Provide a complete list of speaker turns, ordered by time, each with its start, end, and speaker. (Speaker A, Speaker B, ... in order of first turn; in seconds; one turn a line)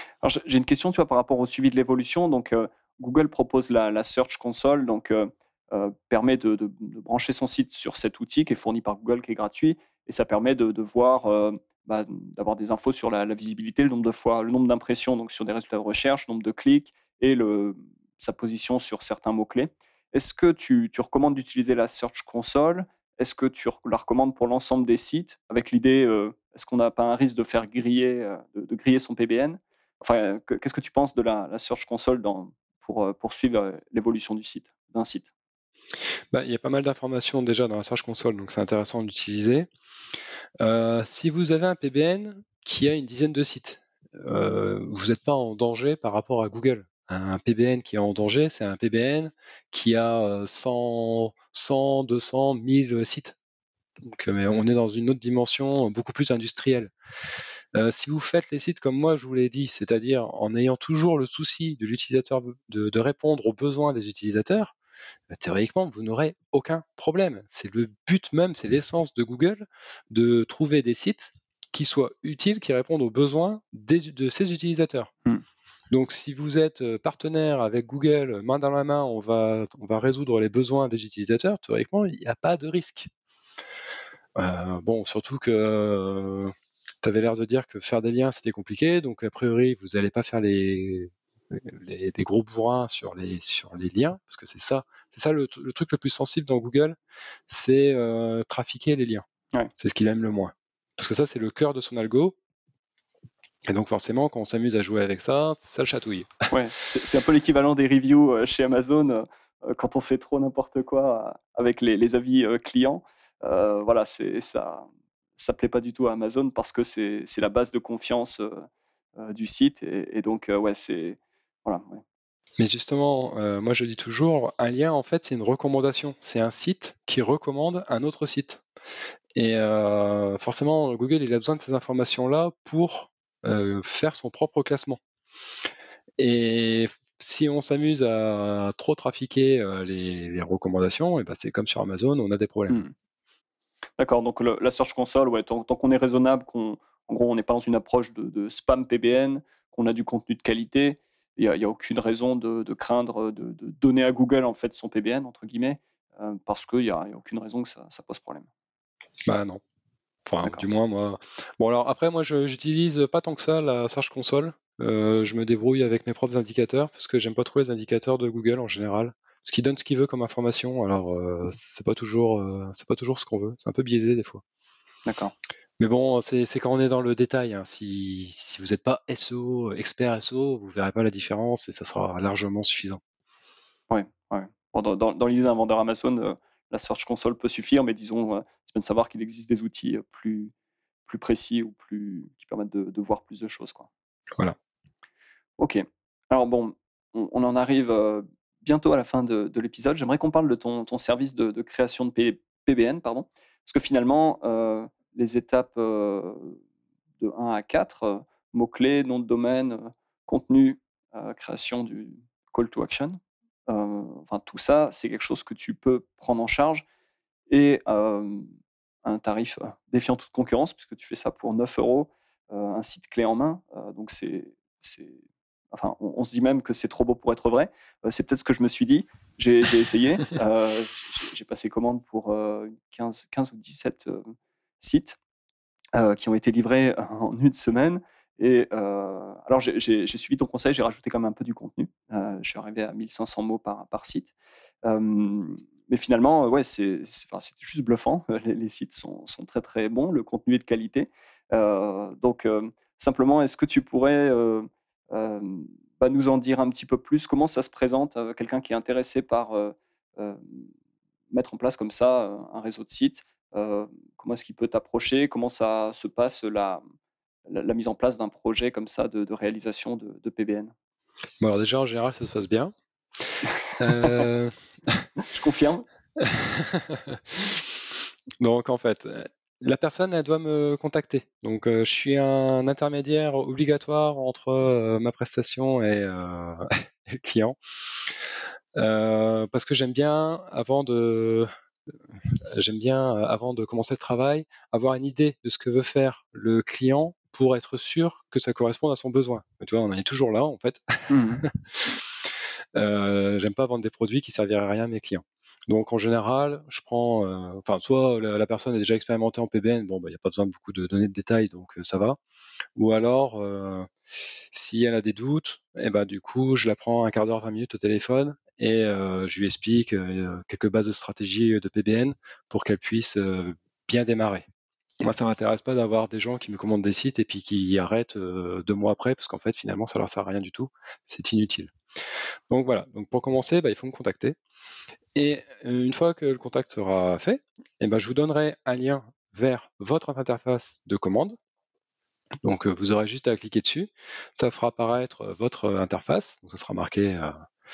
Speaker A: 0.2-35.3
Speaker B: 36.3-39.7
Speaker B: 40.6-53.4
Speaker B: 54.0-56.9
Speaker B: 57.7-64.7
Speaker B: 65.3-75.1
Speaker B: 75.9-83.1
Speaker B: 84.3-97.0
Speaker B: 97.5-99.2
Speaker B: 99.8-102.3
Speaker B: 103.7-106.5
Speaker A: 106.5-122.0
Speaker B: 122.6-128.6
Speaker B: 129.3-135.0
Speaker B: 136.2-142.8
Speaker A: 144.0-158.5
Speaker B: 159.2-159.6
Speaker B: 160.2-174.4
Speaker A: 175.1-175.3
Speaker B: 175.8-183.0
Speaker A: 183.9-190.5
Speaker A: 191.1-193.9
Speaker A: 195.6-206.6
Speaker A: 207.2-216.8
Speaker A: 217.5-218.5
Speaker A: 219.0-225.2
Speaker A: 225.7-235.2
Speaker A: 235.9-244.3
Speaker A: 244.8-260.7
Speaker A: 261.3-266.8
Speaker A: 267.5-270.7
Speaker B: 271.4-272.7
Speaker B: 273.8-275.0
Speaker A: 273.9-274.2
Speaker A: 275.2-275.9
Speaker B: 276.2-288.2
Speaker B: 288.7-291.5
Speaker B: 292.2-312.2
Speaker A: 301.1-301.4
Speaker B: 312.8-313.9
Speaker B: 314.5-324.4
Speaker B: 325.0-331.7
Speaker B: 332.5-334.4
Speaker B: 335.1-341.4
Speaker B: 342.4-347.3